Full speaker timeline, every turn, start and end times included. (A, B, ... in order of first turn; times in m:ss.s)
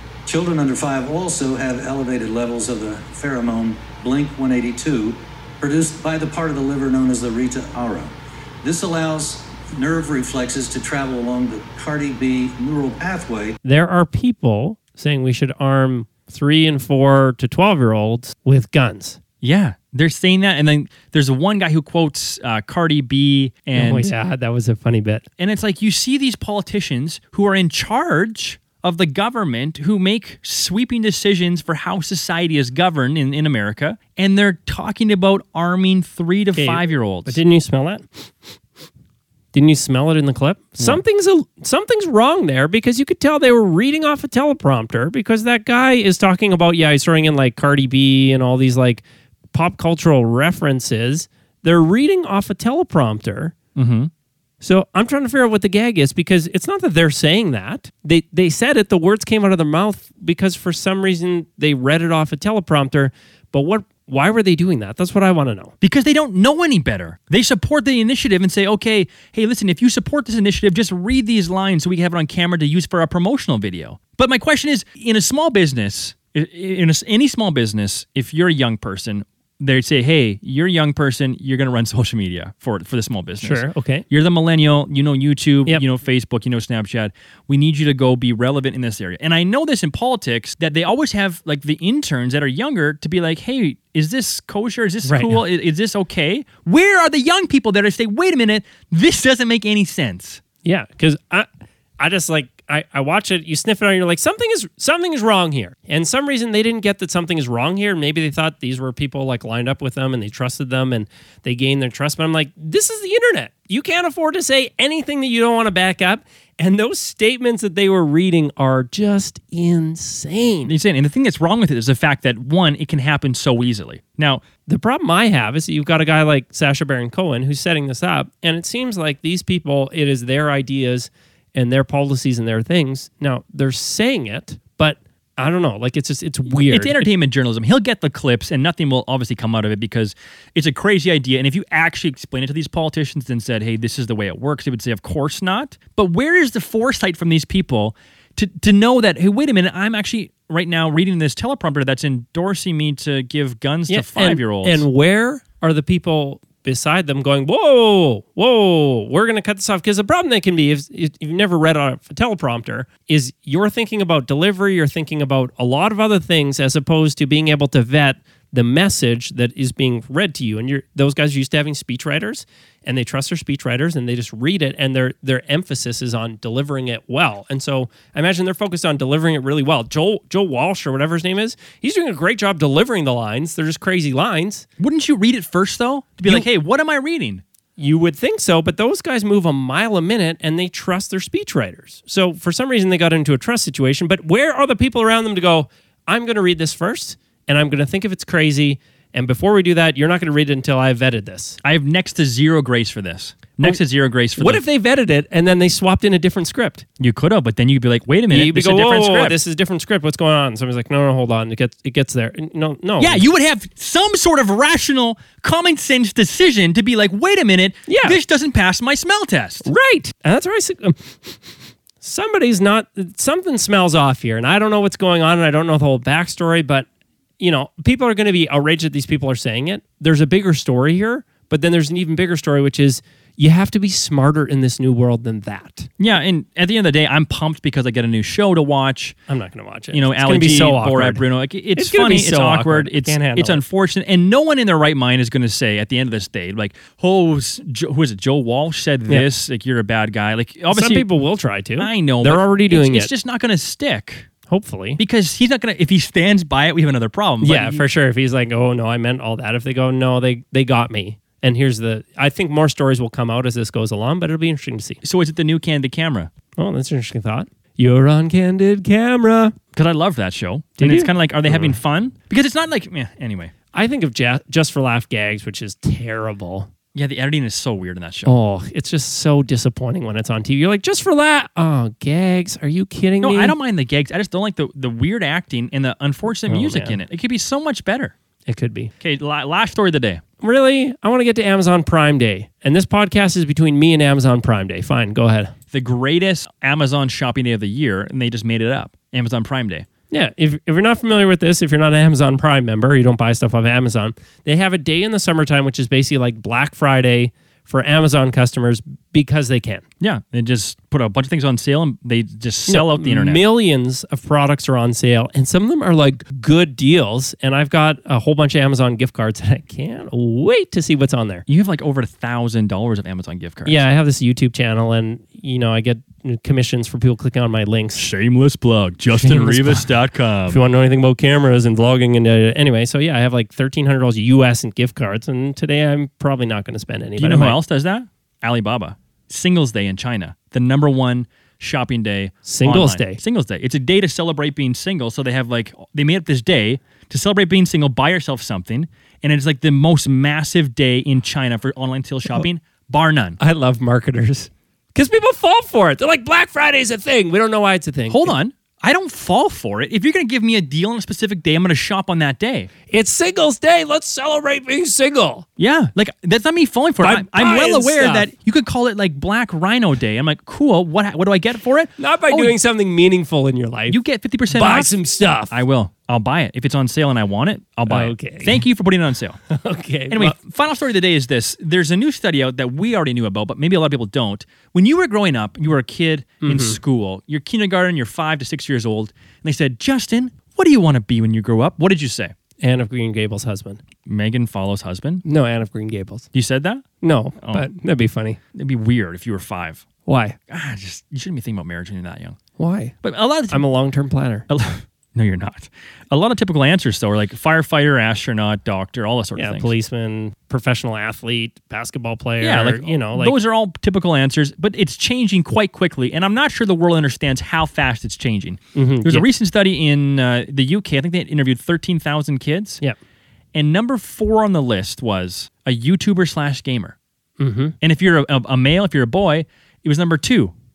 0:00.3-0:13.6 A
0:13.6-0:19.2 B
0:19.4-0:24.1 C
0:23.7-0:25.2 B
0:25.4-0:37.4 C
0:36.6-0:38.1 B
0:39.5-0:53.6 B
0:53.8-0:54.1 C
0:54.6-1:05.7 B
1:05.8-1:40.4 C
1:23.4-1:24.1 B
1:35.0-1:35.4 B
1:40.6-1:41.5 B
1:42.0-2:00.7 B
2:00.6-2:04.4 C
2:04.7-2:17.1 B
2:16.5-2:34.8 C
2:33.9-3:04.6 B
3:04.8-3:07.4 C
3:07.8-3:21.6 B
3:21.6-3:24.6 C
3:24.4-3:26.8 B
3:27.0-3:29.4 C
3:28.3-3:33.2 B
3:33.0-3:39.7 C
3:37.9-3:38.2 B
3:39.6-3:46.9 B
3:47.4-3:55.9 B
3:56.0-3:59.2 C
3:59.3-4:01.2 B
3:59.9-4:11.1 C
4:01.8-4:03.6 B
4:10.7-4:13.1 B
4:11.8-4:14.3 C
4:14.5-4:15.0 B
4:15.0-4:17.8 C
4:17.4-4:25.0 B
4:25.0-4:26.3 C
4:26.6-4:29.6 B
4:29.7-4:33.5 C
4:30.8-4:31.8 B
4:33.7-4:36.7 B
4:37.0-4:38.3 C
4:38.2-4:43.6 B
4:43.2-4:48.1 C
4:46.5-4:47.0 B
4:48.5-4:48.9 B
4:49.0-4:50.2 C
4:50.4-4:55.5 B
4:55.7-4:59.9 C
5:00.1-5:09.8 B
5:10.0-5:13.4 C
5:12.7-5:21.4 B
5:21.5-5:23.8 C
5:23.7-5:28.0 B
5:28.0-5:30.6 C
5:29.1-5:29.9 B
5:30.5-5:37.6 B
5:37.2-5:53.4 C
5:42.4-5:43.2 B
5:53.4-5:58.3 B
5:58.1-6:02.7 C
6:02.9-6:05.5 B
6:05.6-6:12.6 C
6:07.0-6:08.3 B
6:12.0-6:15.6 B
6:13.9-6:19.4 C
6:17.9-6:18.6 B
6:19.5-6:20.4 B
6:20.1-6:32.3 C
6:26.4-6:26.8 B
6:32.6-6:33.8 B
6:34.1-6:35.2 C
6:35.2-6:36.3 B
6:36.3-6:36.8 C
6:37.0-6:38.4 B
6:37.4-6:37.7 C
6:38.5-6:39.8 C
6:40.1-6:40.4 B
6:40.5-6:42.4 C
6:42.6-6:43.0 B
6:43.0-6:43.6 C
6:43.5-6:44.5 B
6:44.5-6:49.7 C
6:49.4-6:53.4 B
6:52.4-7:02.8 C
6:58.8-6:59.3 B
7:03.5-7:07.0 C
7:07.4-7:07.8 B
7:07.8-7:10.5 C